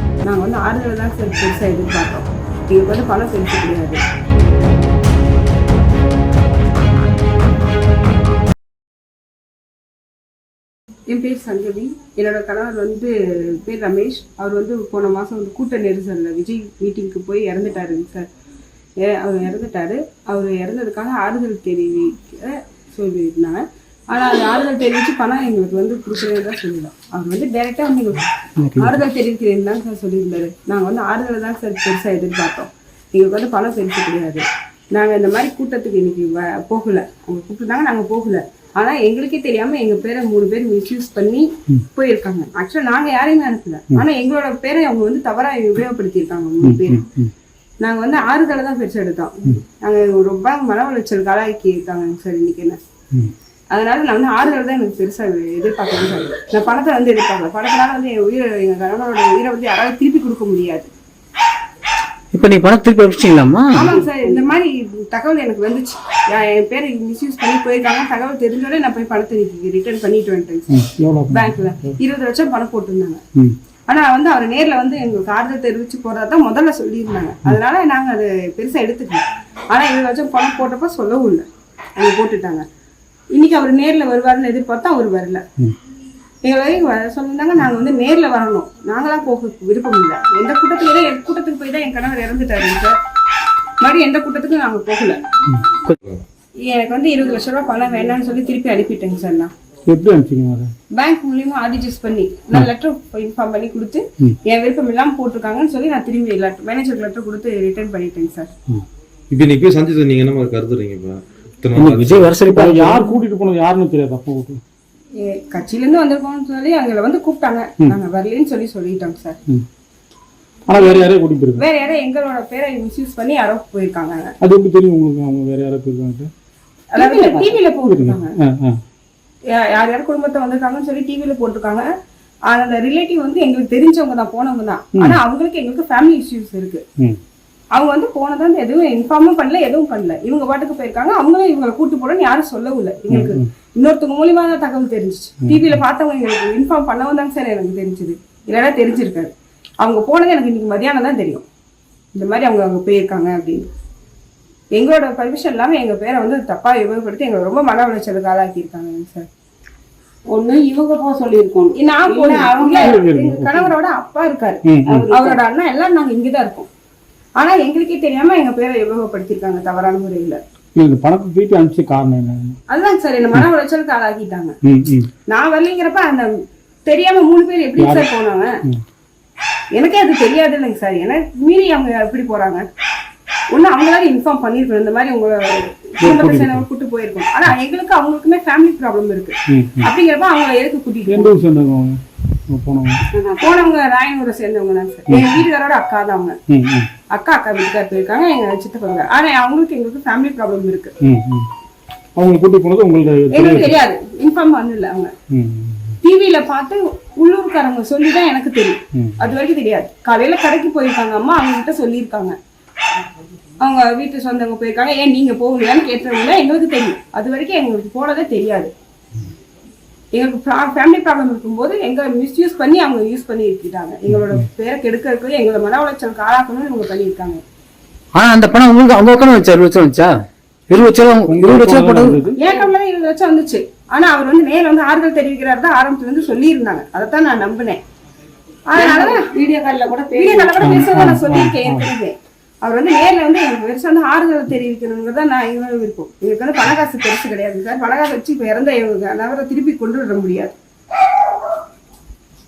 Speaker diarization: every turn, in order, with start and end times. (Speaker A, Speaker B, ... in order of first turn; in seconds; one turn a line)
Speaker A: 0.2-4.0
Speaker A: 11.1-18.3
Speaker A: 19.0-47.0
Speaker B: 28.6-29.0
Speaker C: 46.6-47.3
Speaker A: 47.8-52.8
Speaker A: 53.7-60.9
Speaker B: 62.3-63.9
Speaker A: 63.7-70.8
Speaker C: 70.7-71.9
Speaker A: 71.3-73.2
Speaker A: 73.9-81.5
Speaker A: 82.0-82.6
Speaker A: 83.3-85.4
Speaker A: 86.4-93.0
Speaker A: 93.8-95.2
Speaker A: 96.6-99.5
Speaker C: 99.9-100.7
Speaker A: 100.9-108.5
Speaker D: 109.3-112.3
Speaker B: 111.8-113.1
Speaker C: 112.5-114.6
Speaker A: 115.2-119.4
Speaker C: 120.7-121.7
Speaker A: 120.8-121.1
Speaker A: 121.6-124.3
Speaker C: 124.4-126.3
Speaker A: 126.9-128.3
Speaker C: 127.0-128.8
Speaker A: 129.5-131.9
Speaker A: 132.5-136.8
Speaker C: 134.9-135.2
Speaker A: 137.7-151.4
Speaker C: 143.1-143.5
Speaker C: 145.4-145.8
Speaker A: 152.1-153.7
Speaker A: 154.7-159.3
Speaker E: 160.3-162.9
Speaker A: 161.8-166.7
Speaker C: 162.8-163.7
Speaker C: 164.7-165.1
Speaker E: 164.8-165.4
Speaker A: 167.4-170.4
Speaker C: 170.8-172.6
Speaker A: 172.7-174.6
Speaker C: 174.6-175.1
Speaker A: 175.3-178.6
Speaker C: 177.8-178.1
Speaker A: 179.8-182.7
Speaker A: 183.5-191.3
Speaker C: 186.0-186.7
Speaker C: 189.5-189.9
Speaker C: 191.1-193.0
Speaker E: 193.1-193.5
Speaker A: 193.4-196.4
Speaker C: 195.1-195.4
Speaker C: 196.5-196.9
Speaker A: 197.1-200.9
Speaker C: 201.0-201.5
Speaker C: 202.2-203.8
Speaker A: 203.3-205.1
Speaker C: 205.3-206.0
Speaker A: 206.0-212.4
Speaker C: 208.9-209.3
Speaker A: 213.6-218.7
Speaker A: 220.1-227.4
Speaker B: 228.2-230.1
Speaker B: 230.7-232.2
Speaker C: 231.2-232.4
Speaker A: 232.4-237.8
Speaker A: 238.7-239.3
Speaker E: 238.8-240.8
Speaker A: 240.1-250.6
Speaker C: 240.6-241.9